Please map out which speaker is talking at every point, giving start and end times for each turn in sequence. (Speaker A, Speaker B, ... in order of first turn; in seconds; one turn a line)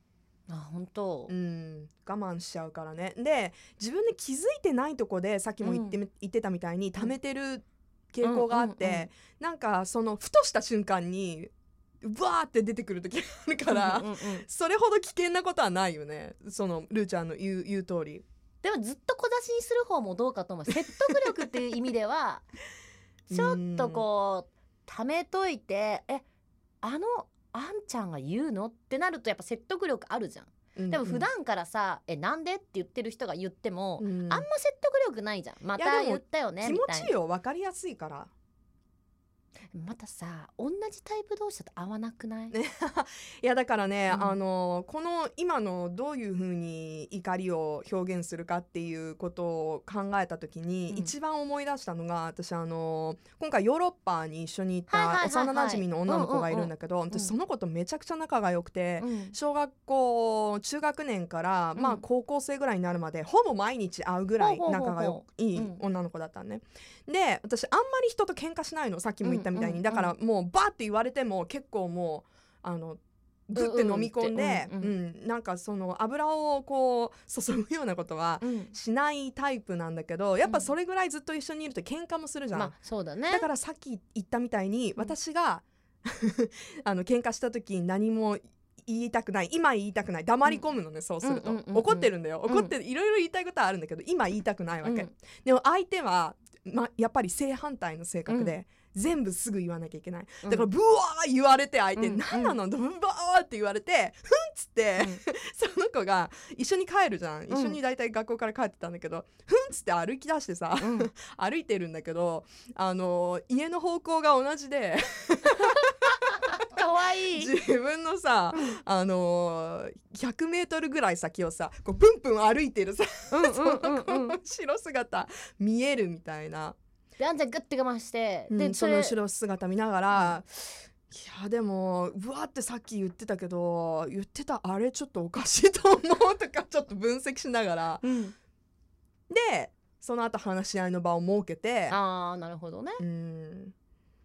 Speaker A: 0.5-1.3
Speaker B: 1.3-18.2
Speaker A: 5.6-6.0
Speaker A: 8.2-9.1
Speaker A: 13.7-14.5
Speaker A: 18.6-22.4
Speaker B: 23.3-24.1
Speaker A: 23.3-26.2
Speaker A: 26.8-37.1
Speaker B: 30.8-31.3
Speaker B: 34.0-34.5
Speaker B: 35.8-38.3
Speaker A: 39.7-42.5
Speaker B: 42.5-82.8
Speaker A: 54.9-57.3
Speaker A: 59.0-59.4
Speaker A: 61.8-62.0
Speaker A: 64.4-65.8
Speaker A: 69.2-70.1
Speaker A: 73.6-75.0
Speaker A: 78.4-78.7
Speaker A: 80.4-80.7
Speaker A: 82.5-83.5
Speaker B: 83.3-115.9
Speaker A: 91.2-92.7
Speaker A: 94.8-95.1
Speaker A: 98.3-98.5
Speaker A: 100.4-100.7
Speaker A: 102.0-102.6
Speaker A: 107.5-107.8
Speaker A: 110.8-111.1
Speaker A: 116.5-117.5
Speaker B: 117.3-126.8
Speaker A: 123.3-124.4
Speaker A: 127.2-129.2
Speaker B: 128.5-130.5
Speaker A: 130.1-130.4
Speaker B: 131.1-138.0
Speaker A: 138.0-138.3
Speaker B: 139.3-142.0
Speaker A: 141.9-143.0
Speaker B: 143.0-143.7